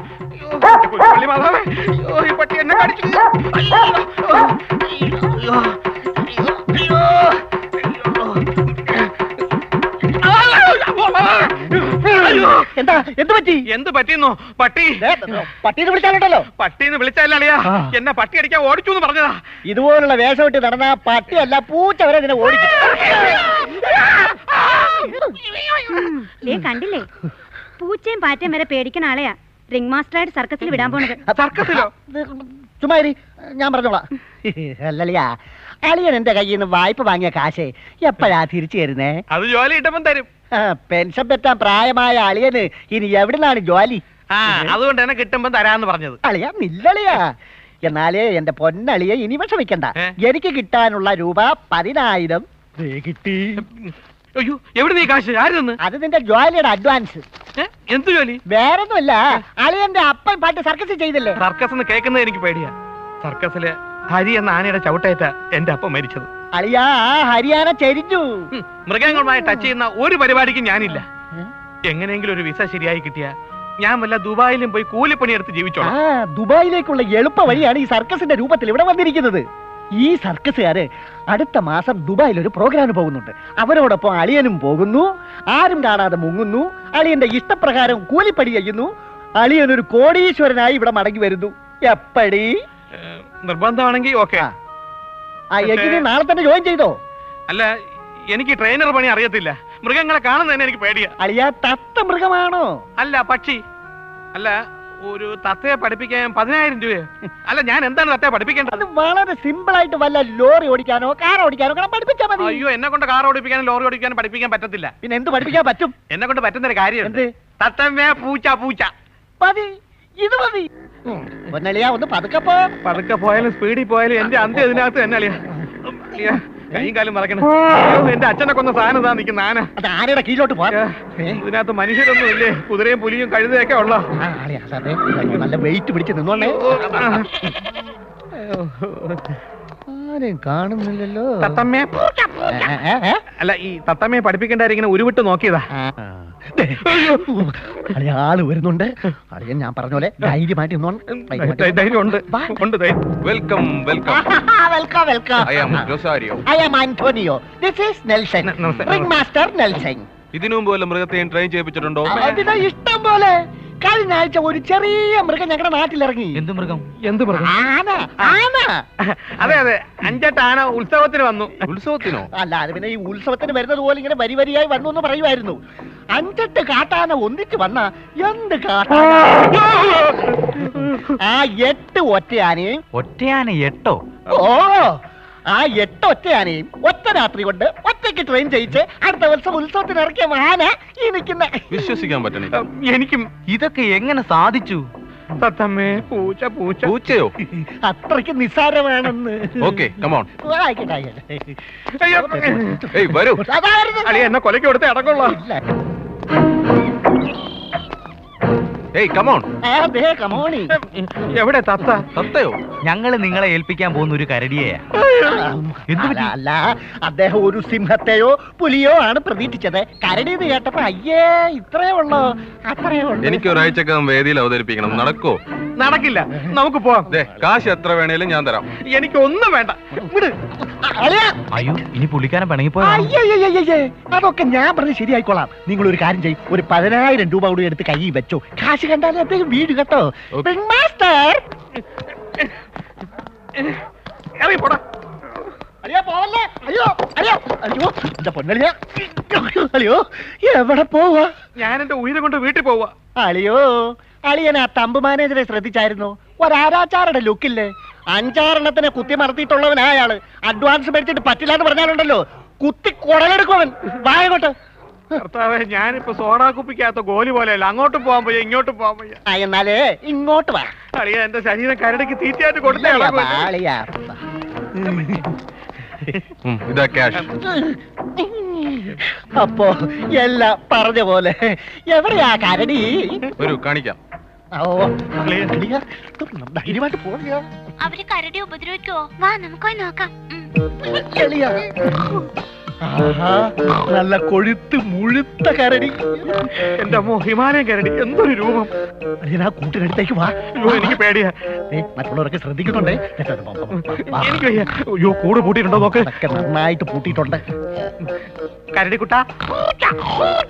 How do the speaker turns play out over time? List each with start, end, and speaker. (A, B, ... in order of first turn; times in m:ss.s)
0:00.5-0:04.4 A
0:10.2-0:11.5 A
0:11.9-0:13.6 B
0:13.7-0:15.0 A
0:15.0-0:16.4 B
0:16.6-0:19.4 A
0:19.7-0:23.4 B
0:25.9-0:27.0 C
0:27.8-0:31.2 C
0:31.3-0:31.9 A
0:31.4-0:35.3 B
0:35.8-0:39.2 B
0:39.3-0:40.3 A
0:40.5-0:44.0 B
0:44.3-0:46.2 A
0:46.2-0:47.3 B
0:47.8-0:52.4 B
0:53.1-0:53.5 B
0:53.6-0:55.8 A
0:55.8-0:57.2 B
0:57.6-0:58.4 A
0:58.5-1:01.4 B
1:01.4-1:06.3 A
1:06.5-1:08.2 B
1:08.5-1:11.0 A
1:11.9-1:15.9 A
1:15.8-1:19.4 B
1:20.0-1:28.9 B
1:29.4-1:32.5 B
1:33.0-1:34.4 A
1:35.5-1:37.0 B
1:35.6-1:36.0 A
1:38.3-1:41.1 A
1:41.2-1:42.7 B
1:43.0-1:43.6 A
1:45.0-1:48.8 A
1:48.7-1:52.6 B
1:52.4-1:54.9 A
1:55.0-1:55.9 B
1:56.1-1:58.9 A
1:59.4-1:59.7 B
2:00.2-2:02.7 B
2:02.8-2:09.7 A
2:09.8-2:11.4 B
2:10.7-2:14.0 A
2:14.2-2:16.6 B
2:16.4-2:17.3 A
2:19.9-2:21.6 B
2:21.4-2:21.9 A
2:22.5-2:23.2 B
2:23.4-2:25.7 A
2:25.9-2:32.6 B
2:26.9-2:27.2 A
2:31.1-2:33.0 A
2:33.2-2:34.2 D
2:34.1-2:35.9 B
2:35.4-2:36.4 D
2:36.5-2:40.1 B
2:38.4-2:39.1 A
2:40.3-2:42.1 D
2:42.1-2:46.4 B
2:46.4-2:46.9 E
2:47.0-2:47.5 A
2:47.3-2:48.8 B
2:49.4-2:51.6 A
2:51.7-2:52.3 D
2:52.3-2:55.6 B
2:56.1-3:00.1 B
3:01.2-3:02.8 B
3:02.9-3:04.0 E
3:04.3-3:04.9 B
3:05.5-3:11.8 B
3:11.7-3:12.5 D
3:12.5-3:13.3 A
3:13.5-3:14.8 E
3:15.4-3:16.9 A
3:16.8-3:17.3 D
3:17.8-3:19.7 B
3:19.6-3:20.3 D
3:20.4-3:21.4 B
3:22.0-3:22.6 A
3:22.1-3:24.3 B
3:23.0-3:23.4 D
3:24.0-3:25.4 A
3:25.2-3:25.6 B
3:28.9-3:29.4 D
3:29.6-3:30.7 B
3:31.3-3:32.1 A
3:32.1-3:32.6 D
3:32.8-3:34.8 E
3:35.1-3:43.5 B
3:35.9-3:36.3 E
3:43.2-3:45.4 D
3:45.8-3:47.1 A
3:47.1-3:48.6 D
3:48.8-3:50.0 A
3:50.9-3:51.3 B
3:51.5-3:53.0 E
3:52.8-4:01.4 B
4:04.4-4:04.8 A
4:05.8-4:11.3 B
4:11.6-4:12.9 A
4:13.2-4:24.5 B
4:25.2-4:29.2 A
4:29.3-4:30.7 B
4:31.0-4:33.4 A
4:32.6-4:34.2 B
4:34.8-4:35.2 B
4:36.4-4:37.3 D
4:37.4-4:43.2 B
4:43.4-4:44.0 D
4:44.6-4:47.4 B
4:47.8-4:50.5 F
4:50.9-4:52.2 B
4:52.8-4:56.4 B
4:56.8-4:58.7 A
4:59.2-5:01.0 B
5:00.4-5:01.3 A
5:01.7-5:04.7 B
5:04.1-5:06.1 A
5:05.7-5:07.4 B
5:08.7-5:09.2 A